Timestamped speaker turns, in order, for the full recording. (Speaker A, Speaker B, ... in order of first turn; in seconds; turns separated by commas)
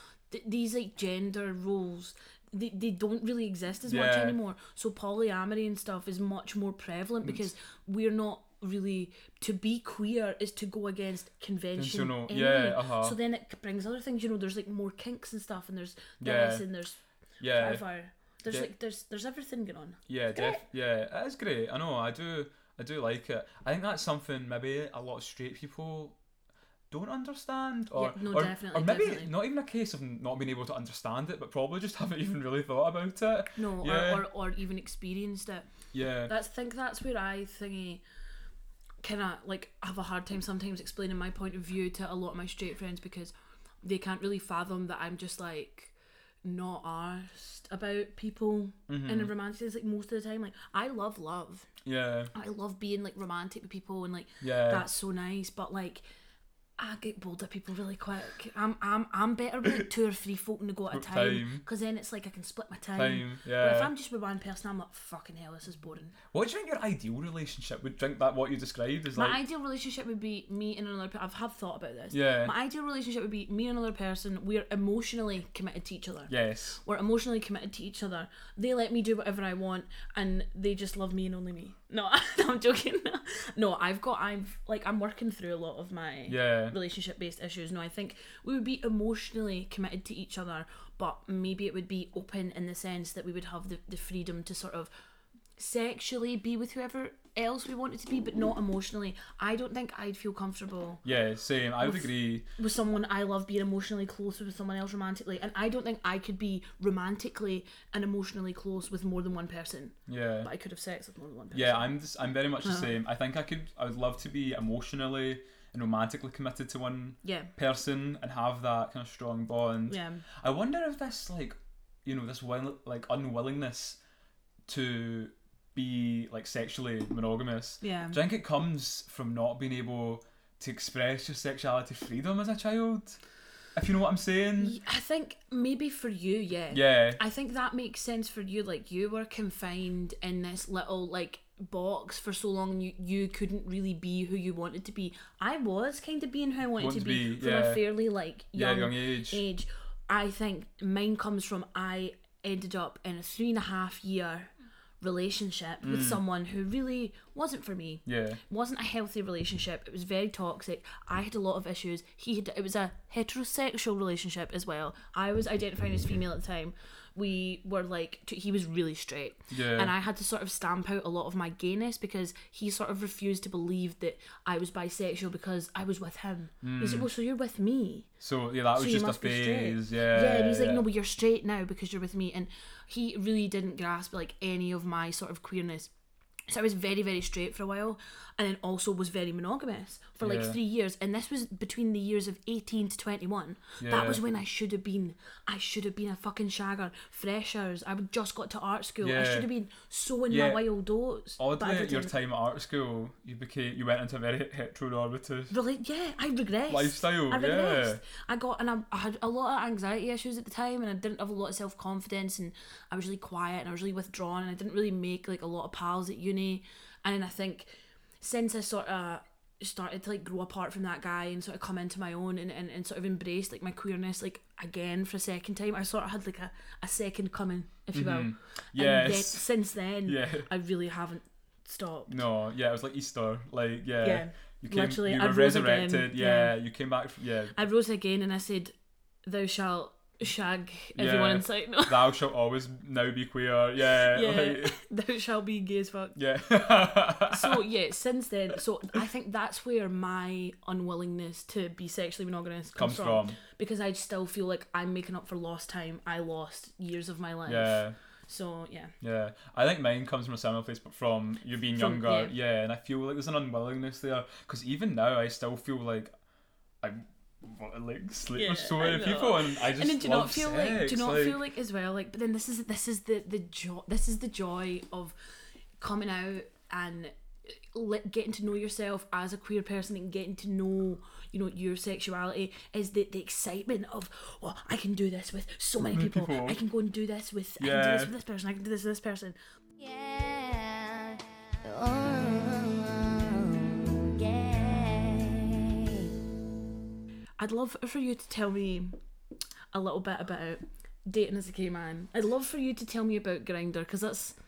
Speaker A: 0.3-17.0, Speaker B: 3.9-4.4, Speaker B: 11.8-13.2, Speaker B: 16.2-16.7, Speaker B: 17.4-17.8, Speaker A: 17.5-20.6, Speaker B: 18.5-18.7, Speaker B: 20.1-26.2, Speaker B: 26.9-34.3, Speaker A: 27.9-29.3, Speaker A: 33.6-35.7, Speaker B: 35.9-36.3, Speaker A: 36.3-38.0, Speaker A: 39.0-51.7, Speaker B: 48.9-49.3, Speaker B: 51.9-52.3, Speaker A: 52.3-56.0, Speaker B: 54.4-54.9, Speaker A: 56.8-66.2, Speaker B: 60.9-61.6, Speaker B: 63.0-63.9, Speaker B: 66.3-69.4, Speaker A: 69.1-94.9, Speaker B: 72.1-72.5, Speaker B: 76.3-76.8, Speaker B: 86.3-86.8, Speaker A: 95.6-101.0, Speaker B: 101.0-102.5, Speaker A: 101.8-111.9, Speaker B: 110.1-110.5, Speaker B: 111.5-124.0, Speaker A: 112.6-112.9, Speaker A: 117.2-117.5, Speaker A: 119.9-120.2, Speaker B: 124.7-133.2, Speaker A: 127.8-128.2, Speaker B: 133.8-134.8, Speaker A: 134.6-178.1, Speaker B: 136.7-137.2, Speaker B: 146.8-147.9, Speaker B: 148.6-149.4, Speaker B: 155.8-156.2, Speaker B: 158.1-158.4, Speaker B: 169.5-169.9, Speaker B: 176.6-177.1, Speaker B: 178.2-180.8, Speaker A: 178.7-185.9, Speaker A: 186.5-202.1, Speaker B: 190.2-190.6, Speaker B: 193.8-194.2, Speaker B: 199.0-199.5, Speaker B: 200.3-200.6, Speaker B: 201.4-205.5, Speaker A: 205.5-232.2, Speaker B: 206.7-208.0, Speaker B: 227.9-229.5, Speaker B: 230.0-230.5, Speaker B: 232.1-237.6, Speaker A: 234.0-236.5, Speaker A: 237.6-242.1, Speaker B: 241.0-244.8, Speaker A: 244.1-246.2, Speaker B: 246.2-247.6, Speaker A: 247.3-258.9, Speaker B: 252.8-253.4, Speaker B: 257.5-257.9, Speaker B: 259.0-266.1, Speaker A: 261.8-262.3, Speaker B: 266.8-271.4, Speaker A: 268.4-275.1, Speaker A: 275.8-289.4, Speaker B: 285.8-286.6, Speaker B: 287.6-288.1, Speaker C: 289.8-296.2, Speaker A: 297.4-299.0, Speaker A: 299.7-304.4